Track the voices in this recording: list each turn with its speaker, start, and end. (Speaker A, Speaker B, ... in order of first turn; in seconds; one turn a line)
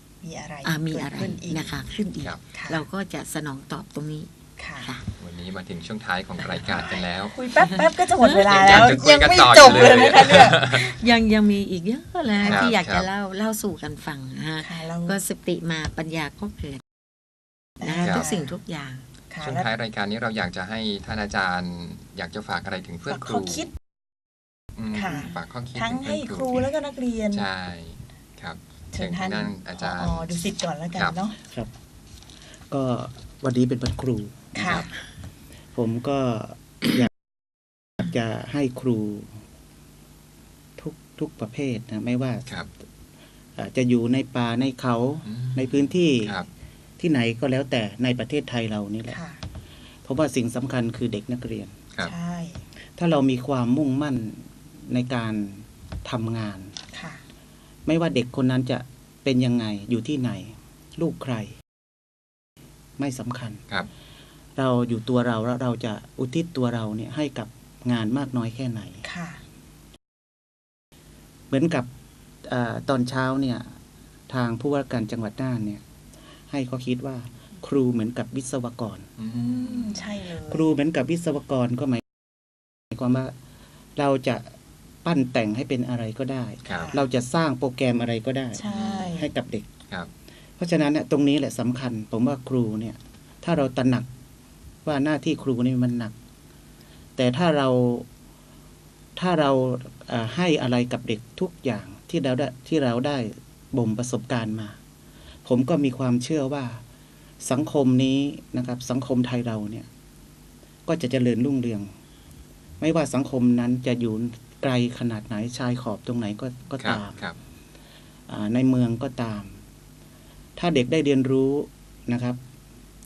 Speaker A: 0.2-1.7
Speaker B: 0.6-4.3
Speaker C: 1.2-2.4
Speaker A: 2.5-2.9
Speaker A: 4.6-4.9
Speaker B: 4.8-5.1
Speaker C: 5.2-7.4
Speaker B: 6.4-6.7
Speaker A: 6.8-10.6
Speaker B: 7.6-8.5
Speaker C: 8.5-10.9
Speaker B: 9.9-16.8
Speaker A: 12.3-12.7
Speaker C: 12.4-13.1
Speaker A: 14.6-15.2
Speaker A: 17.8-18.6
Speaker B: 17.8-19.1
Speaker C: 18.0-18.3
Speaker A: 19.3-19.7
Speaker C: 19.4-23.7
Speaker A: 23.1-23.7
Speaker C: 24.8-26.7
Speaker A: 24.9-27.5
Speaker C: 27.3-31.2
Speaker A: 28.9-31.4
Speaker D: 32.7-34.9
Speaker A: 34.5-34.9
Speaker D: 35.8-37.1
Speaker D: 38.0-39.3
Speaker D: 40.8-42.5
Speaker D: 43.6-46.4
Speaker C: 45.3-46.5
Speaker D: 47.0-49.2
Speaker A: 49.1-49.4
Speaker D: 50.1-51.8
Speaker A: 52.0-52.6
Speaker D: 53.0-56.7
Speaker A: 56.9-57.2
Speaker D: 57.9-61.5
Speaker D: 63.0-63.6
Speaker D: 64.6-69.0
Speaker A: 69.0-69.4
Speaker D: 71.5-71.9
Speaker D: 72.5-73.7
Speaker D: 74.3-75.8
Speaker D: 76.5-79.1
Speaker C: 79.2-80.0
Speaker A: 79.3-80.7
Speaker D: 80.5-82.0
Speaker D: 82.9-83.3
Speaker D: 84.0-84.5
Speaker D: 85.0-89.7
Speaker C: 86.7-86.9
Speaker A: 86.7-87.0
Speaker A: 88.5-89.3
Speaker C: 88.7-89.2
Speaker D: 90.6-94.1
Speaker D: 94.8-96.1
Speaker D: 97.2-98.1
Speaker D: 99.2-104.8
Speaker D: 105.5-106.8
Speaker D: 107.4-109.9
Speaker D: 110.9-111.9
Speaker D: 112.8-117.2
Speaker C: 116.8-117.4
Speaker D: 118.3-119.5
Speaker D: 120.6-122.4